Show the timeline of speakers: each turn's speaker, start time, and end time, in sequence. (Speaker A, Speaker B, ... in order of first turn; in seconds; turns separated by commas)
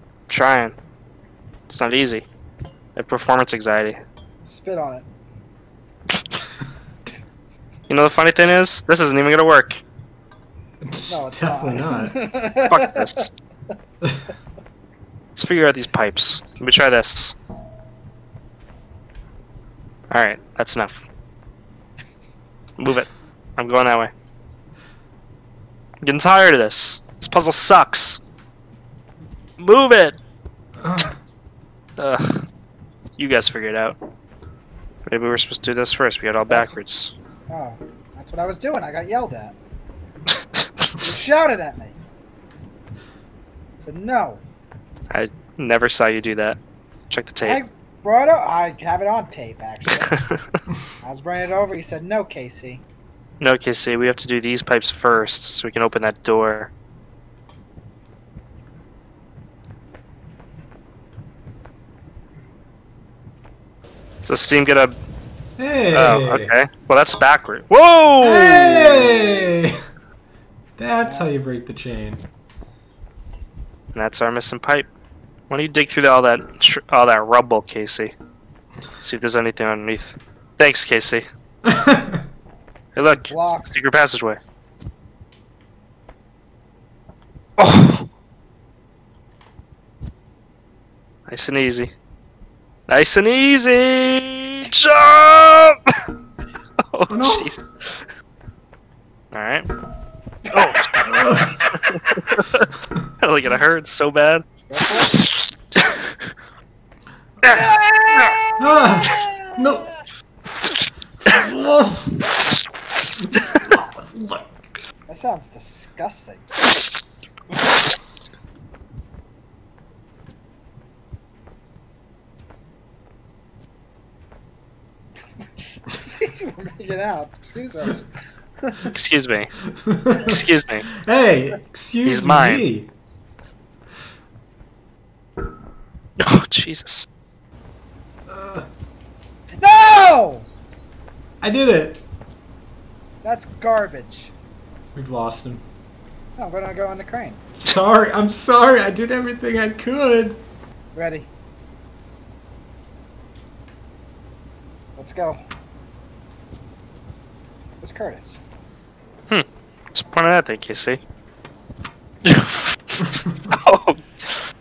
Speaker A: 0.3-0.8, Speaker A: 1.7-2.2, Speaker A: 3.0-4.0, Speaker B: 4.4-5.1, Speaker A: 7.9-9.8, Speaker C: 10.8-12.2, Speaker B: 11.1-13.3, Speaker A: 12.6-13.3, Speaker A: 15.3-17.3, Speaker A: 20.1-21.0, Speaker A: 22.8-24.1, Speaker A: 26.0-28.2, Speaker A: 29.6-30.2, Speaker C: 30.8-31.1, Speaker A: 32.0-32.4, Speaker A: 33.2-34.0, Speaker A: 35.0-37.1, Speaker B: 36.5-36.8, Speaker B: 37.5-39.5, Speaker B: 41.0-42.0, Speaker B: 43.8-44.4, Speaker A: 45.1-46.6, Speaker A: 47.1-47.6, Speaker B: 47.4-50.2, Speaker A: 50.0-50.6, Speaker B: 51.0-52.8, Speaker A: 53.4-56.7, Speaker A: 64.2-64.9, Speaker C: 65.6-66.5, Speaker A: 65.9-69.3, Speaker C: 68.2-69.8, Speaker C: 70.8-72.2, Speaker B: 71.0-71.3, Speaker A: 73.9-74.9, Speaker A: 75.5-78.1, Speaker A: 79.0-81.2, Speaker C: 81.6-82.2, Speaker A: 82.9-84.4, Speaker B: 83.3-83.7, Speaker A: 87.6-88.1, Speaker A: 91.3-91.9, Speaker A: 92.9-95.8, Speaker A: 96.9-97.7, Speaker C: 97.1-97.5, Speaker A: 99.3-99.7, Speaker B: 100.5-100.8, Speaker A: 100.5-102.7, Speaker C: 101.0-101.6, Speaker A: 103.2-104.4, Speaker B: 104.7-105.2, Speaker A: 105.0-106.2, Speaker A: 107.4-108.5, Speaker B: 107.4-109.6, Speaker C: 108.6-109.9, Speaker C: 111.2-112.3, Speaker C: 113.2-114.5, Speaker A: 113.3-113.8, Speaker B: 115.1-116.5, Speaker B: 125.9-128.9, Speaker A: 128.9-129.5, Speaker C: 129.7-130.4, Speaker A: 130.2-130.9, Speaker C: 130.9-132.9, Speaker A: 132.0-132.7, Speaker A: 136.2-137.1, Speaker C: 138.3-138.7, Speaker B: 139.5-140.5, Speaker C: 141.4-142.0, Speaker B: 143.2-144.3, Speaker C: 144.9-145.6, Speaker B: 146.3-147.4, Speaker C: 147.6-150.4, Speaker B: 150.9-151.3, Speaker B: 154.9-155.4, Speaker B: 157.8-158.4, Speaker A: 159.3-161.0, Speaker A: 162.2-164.4